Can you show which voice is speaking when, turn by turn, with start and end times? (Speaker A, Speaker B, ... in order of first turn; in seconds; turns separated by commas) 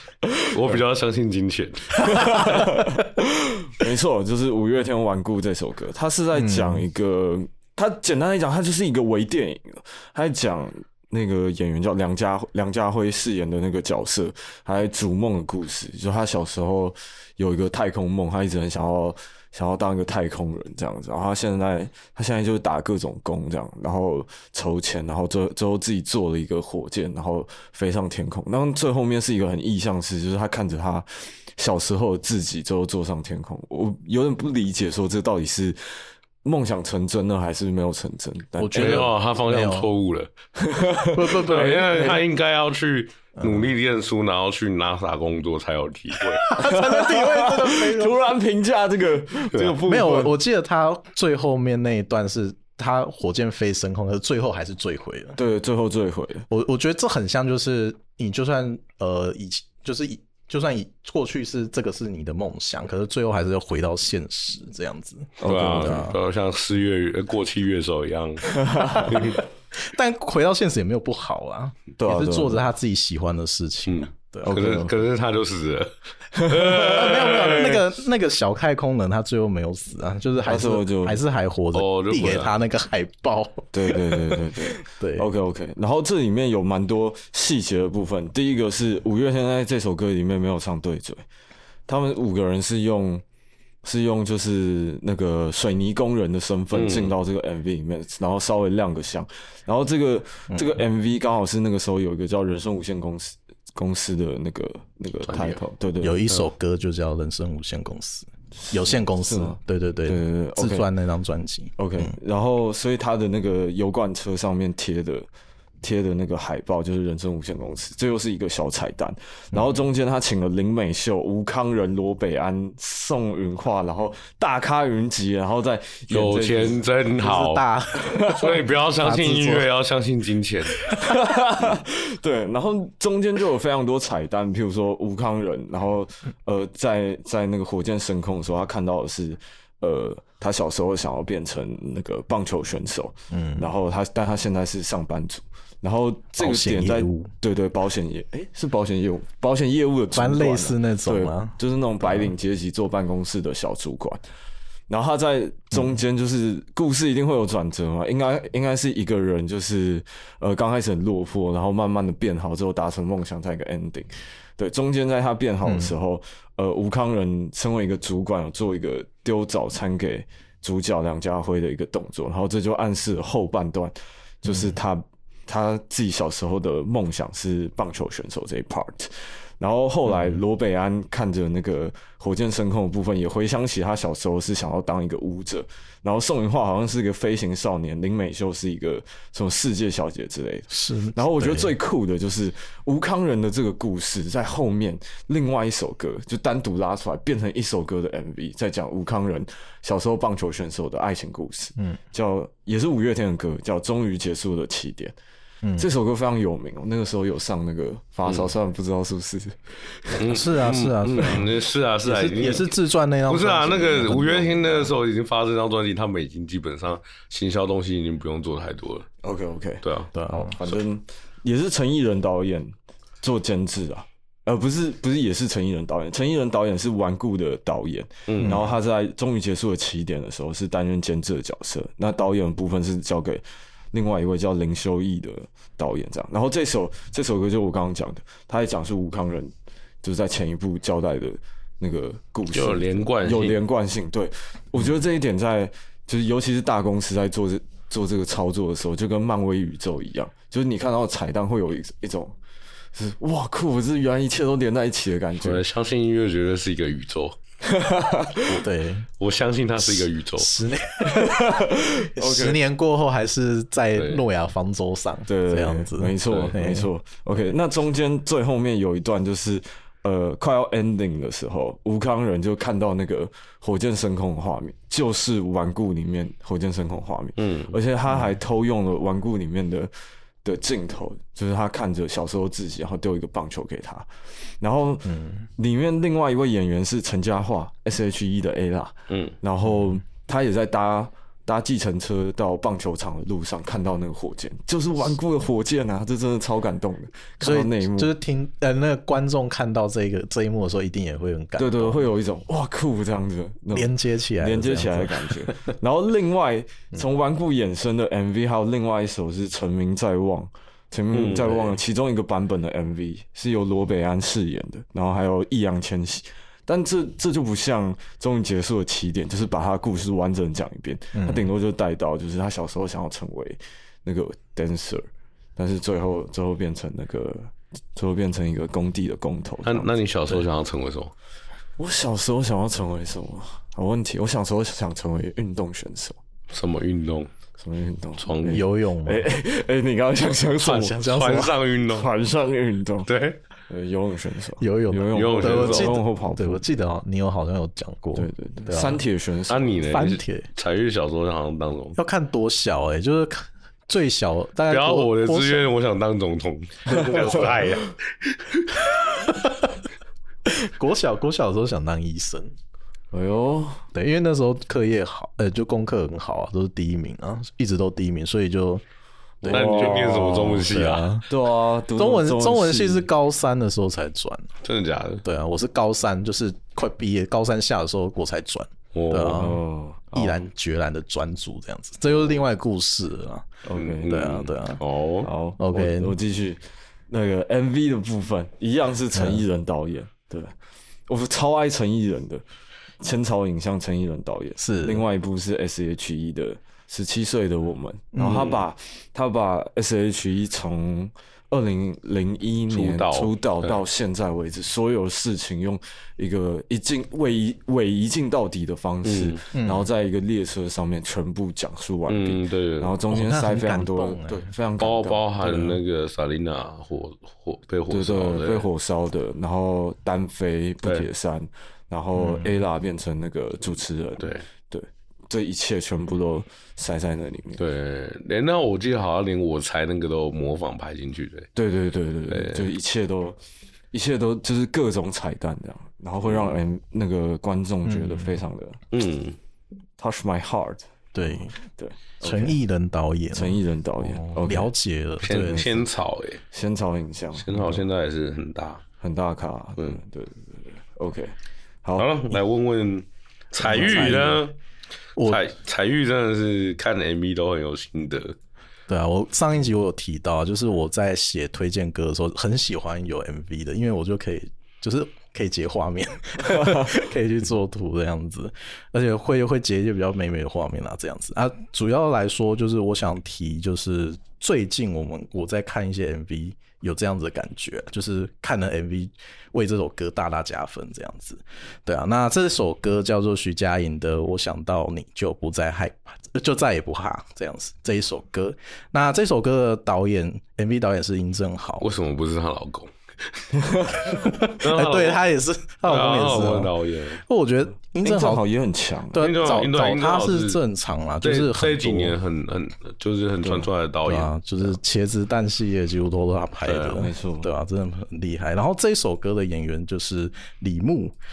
Speaker A: 0.2-0.8, Speaker B: 0.5-2.5, Speaker C: 2.0-3.0, Speaker A: 2.0-35.8, Speaker C: 6.3-6.8, Speaker A: 36.4-39.1, Speaker C: 38.6-39.9, Speaker B: 38.8-40.3, Speaker A: 40.6-42.2, Speaker C: 41.1-42.1, Speaker B: 41.4-46.5, Speaker C: 43.4-43.7, Speaker C: 46.4-48.2, Speaker A: 46.6-50.4, Speaker B: 49.5-49.8, Speaker C: 49.8-55.4, Speaker A: 55.4-56.5, Speaker C: 56.5-66.2, Speaker A: 65.4-66.1, Speaker B: 65.4-68.6, Speaker A: 68.6-69.2, Speaker C: 68.8-74.7, Speaker B: 69.1-69.4, Speaker A: 72.0-72.7, Speaker B: 73.9-77.8, Speaker A: 74.4-74.9, Speaker A: 76.3-77.1, Speaker C: 76.8-85.3, Speaker A: 80.5-81.2, Speaker B: 81.7-82.5, Speaker A: 83.7-91.2, Speaker A: 91.9-93.2, Speaker A: 93.8-106.2, Speaker B: 96.7-97.1, Speaker C: 100.5-100.8, Speaker B: 105.3-105.6, Speaker C: 106.0-112.2, Speaker A: 108.6-110.9, Speaker A: 111.8-115.3, Speaker A: 115.8-126.8, Speaker B: 126.1-127.6, Speaker C: 127.2-129.7, Speaker A: 128.1-128.5, Speaker B: 128.3-130.8, Speaker A: 131.0-154.2, Speaker C: 143.3-143.7, Speaker C: 146.4-147.3, Speaker C: 150.1-152.3, Speaker A: 154.9-205.2, Speaker C: 165.6-165.9, Speaker C: 174.5-174.7, Speaker C: 180.1-180.4, Speaker C: 190.7-191.7, Speaker C: 205.6-205.9, Speaker A: 205.8-210.4, Speaker B: 208.3-208.5, Speaker B: 210.2-219.1, Speaker C: 210.3-211.5, Speaker A: 211.2-211.4, Speaker C: 212.0-214.9, Speaker A: 219.2-252.4, Speaker B: 219.8-220.1, Speaker C: 220.1-220.6, Speaker B: 228.3-228.6, Speaker C: 228.4-228.7, Speaker B: 242.5-243.6, Speaker A: 252.9-255.6, Speaker B: 255.4-257.4, Speaker A: 257.6-258.6, Speaker C: 258.6-259.1, Speaker B: 259.2-260.5, Speaker C: 260.4-266.9, Speaker A: 261.1-262.6, Speaker B: 264.0-264.2, Speaker A: 265.3-279.9, Speaker B: 266.3-266.6, Speaker B: 277.4-277.8, Speaker A: 280.4-284.1, Speaker A: 284.6-298.1, Speaker C: 285.1-285.5, Speaker B: 289.1-289.4, Speaker C: 297.4-302.1, Speaker A: 301.6-330.4, Speaker C: 303.7-305.8, Speaker B: 311.1-311.8, Speaker C: 321.1-321.5, Speaker B: 329.6-331.1, Speaker A: 331.8-336.2, Speaker B: 336.5-337.3, Speaker A: 337.6-341.3, Speaker B: 338.2-338.6, Speaker C: 338.5-339.3, Speaker B: 340.6-342.1, Speaker C: 340.6-341.6, Speaker A: 341.9-343.1, Speaker B: 343.1-343.4, Speaker A: 343.7-346.6, Speaker C: 344.6-349.0, Speaker B: 345.1-346.0, Speaker A: 348.2-349.8, Speaker B: 349.5-352.0, Speaker C: 349.9-350.5, Speaker C: 352.0-355.7, Speaker B: 354.7-359.0, Speaker C: 359.3-359.7, Speaker C: 360.5-362.5, Speaker A: 363.1-363.8, Speaker C: 363.9-368.8, Speaker A: 369.4-370.7, Speaker C: 369.4-371.3, Speaker B: 369.5-371.1, Speaker A: 371.3-373.1, Speaker C: 372.0-374.5, Speaker B: 374.6-375.2, Speaker C: 375.2-379.6, Speaker B: 378.9-379.5, Speaker A: 379.3-380.5, Speaker C: 380.1-383.5, Speaker A: 383.6-384.3, Speaker B: 383.7-385.3, Speaker C: 384.1-384.8, Speaker A: 385.2-390.5, Speaker C: 385.6-386.2, Speaker C: 389.1-389.4, Speaker A: 391.1-392.4, Speaker A: 393.0-415.7, Speaker C: 394.6-395.1, Speaker C: 398.1-398.6, Speaker B: 402.7-403.8, Speaker B: 409.0-409.4, Speaker C: 409.5-409.9, Speaker B: 412.1-413.0, Speaker C: 413.1-414.5, Speaker B: 414.8-418.7, Speaker A: 417.9-427.6, Speaker B: 420.8-421.1, Speaker C: 422.1-422.5, Speaker B: 424.2-424.5, Speaker B: 427.6-431.5, Speaker A: 431.6-433.4, Speaker B: 432.3-432.7, Speaker A: 433.9-438.8, Speaker B: 436.2-436.6, Speaker C: 437.9-438.4, Speaker B: 438.9-439.4, Speaker A: 440.0-442.6, Speaker C: 441.1-441.6, Speaker C: 442.2-445.7, Speaker A: 443.3-444.7, Speaker B: 445.2-446.4, Speaker A: 445.5-445.8, Speaker A: 446.5-447.9, Speaker B: 447.4-448.8, Speaker A: 449.0-452.1, Speaker B: 452.0-454.6, Speaker C: 453.6-454.4, Speaker A: 453.7-454.2, Speaker C: 455.2-455.4, Speaker B: 455.3-458.4, Speaker C: 458.9-491.9, Speaker A: 466.5-466.9, Speaker B: 491.8-493.4, Speaker A: 493.5-494.0, Speaker C: 494.1-498.5, Speaker B: 494.1-495.2, Speaker B: 495.9-497.2, Speaker A: 498.0-499.3, Speaker C: 499.1-502.2, Speaker B: 499.2-500.6, Speaker B: 501.2-504.8, Speaker A: 503.4-503.7, Speaker C: 504.1-511.1, Speaker B: 506.7-507.1, Speaker A: 506.9-507.5